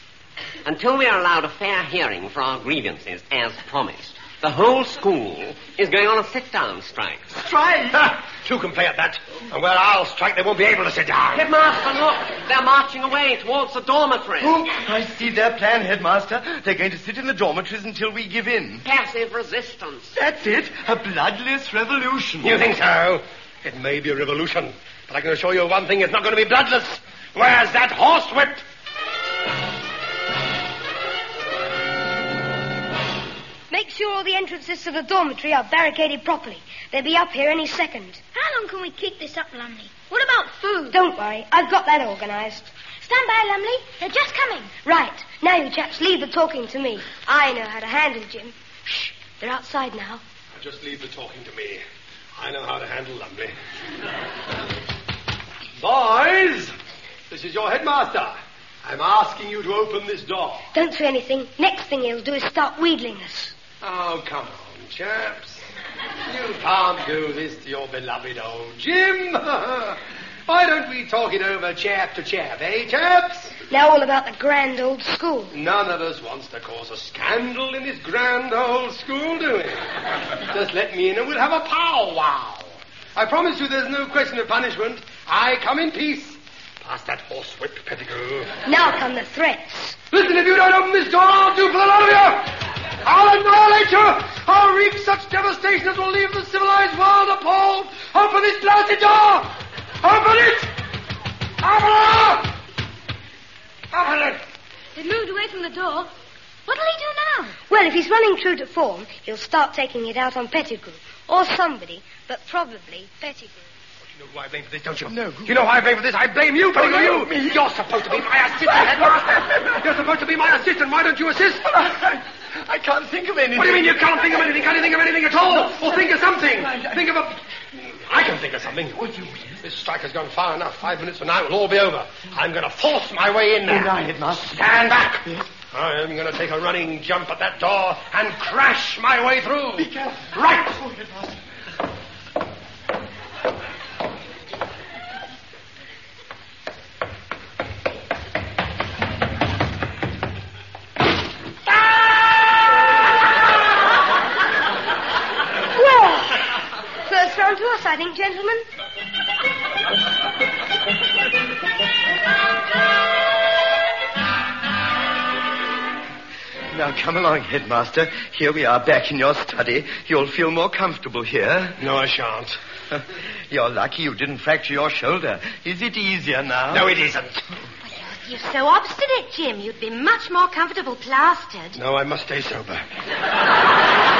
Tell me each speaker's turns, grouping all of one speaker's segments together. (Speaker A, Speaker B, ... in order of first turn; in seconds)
Speaker A: 0.6-7.3, 11.3-14.6, 18.8-20.1
Speaker B: 7.3-8.1, 14.4-18.8, 20.1-22.6, 115.1-115.7, 116.7-117.7, 118.5-120.0, 121.6-124.4, 125.5-127.0, 128.9-129.6, 133.7-135.5, 139.8-141.4, 166.7-171.8, 172.9-176.9
Speaker C: 7.9-11.4, 22.4-28.6, 50.5-51.8, 52.4-53.5, 55.8-56.7, 57.3-60.6, 63.8-65.6, 66.3-73.5, 75.5-79.9, 80.5-88.5, 90.1-92.5, 93.0-99.5, 100.0-100.7, 101.6-102.5, 103.9-104.4, 114.1-121.7, 123.5-129.0, 129.6-133.9, 134.5-139.9, 171.8-172.6, 176.7-177.5, 181.8-182.8
Speaker D: 33.7-38.2, 40.9-42.7, 44.8-50.2, 60.7-63.5, 73.7-75.5, 88.7-90.0, 107.7-113.6, 155.7-156.5, 157.1-158.6
Speaker E: 38.3-41.0, 43.0-44.7, 104.9-106.1, 106.7-107.5
Speaker F: 177.8-181.8